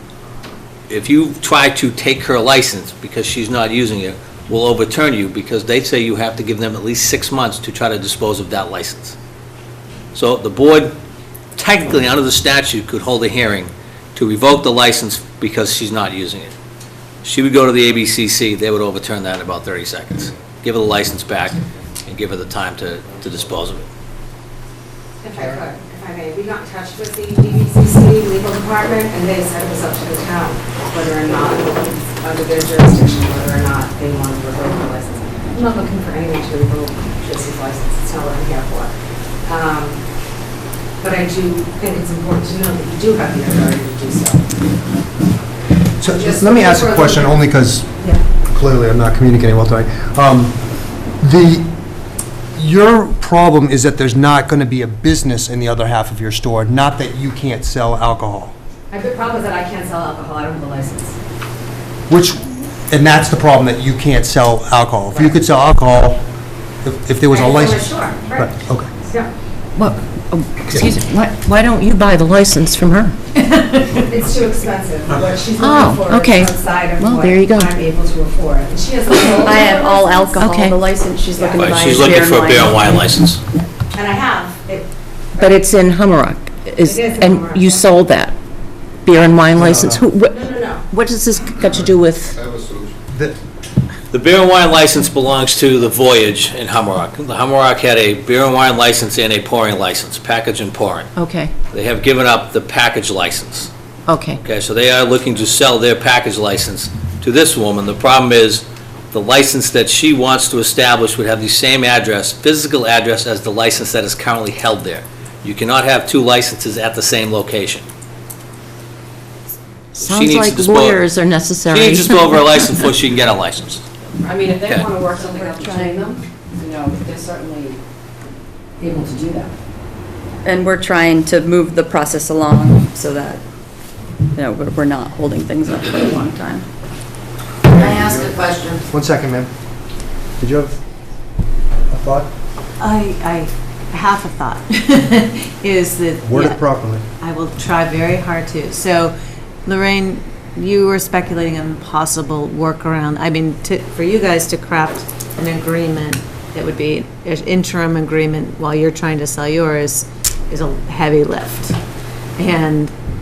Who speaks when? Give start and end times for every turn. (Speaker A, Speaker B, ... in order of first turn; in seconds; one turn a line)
Speaker A: 0.9-9.2
Speaker A: 10.2-10.9
Speaker A: 11.6-16.5
Speaker A: 17.2-23.9
Speaker B: 25.2-38.9
Speaker B: 39.5-40.0
Speaker B: 41.0-44.5
Speaker C: 46.0-47.9
Speaker B: 46.0-48.2
Speaker C: 48.5-50.6
Speaker C: 51.2-51.7
Speaker C: 52.5-58.5
Speaker B: 58.9-61.2
Speaker C: 62.1-66.2
Speaker C: 66.8-68.9
Speaker B: 67.3-68.6
Speaker D: 69.8-73.2
Speaker B: 73.3-80.4
Speaker D: 75.6-77.7
Speaker E: 79.1-83.1
Speaker D: 80.4-80.8
Speaker B: 81.3-82.1
Speaker A: 81.6-83.4
Speaker B: 83.9-85.8
Speaker D: 85.4-88.4
Speaker B: 86.8-88.0
Speaker D: 89.0-90.3
Speaker C: 89.5-90.1
Speaker B: 90.2-90.9
Speaker D: 90.9-92.4
Speaker C: 93.1-93.4
Speaker A: 94.1-101.1
Speaker D: 101.2-101.5
Speaker A: 101.7-103.7
Speaker D: 104.1-104.4
Speaker A: 104.4-117.8
Speaker D: 119.9-122.7
Speaker A: 120.0-121.0
Speaker A: 121.7-123.9
Speaker F: 124.2-127.8
Speaker A: 124.6-124.9
Speaker E: 125.4-126.1
Speaker F: 128.8-129.5
Speaker E: 130.4-133.4
Speaker E: 134.3-136.6
Speaker C: 137.8-138.3
Speaker E: 138.4-138.7
Speaker C: 138.9-139.5
Speaker C: 140.4-140.8
Speaker C: 141.9-142.3
Speaker G: 142.8-146.6
Speaker C: 146.2-147.1
Speaker G: 147.2-161.8
Speaker G: 162.4-162.9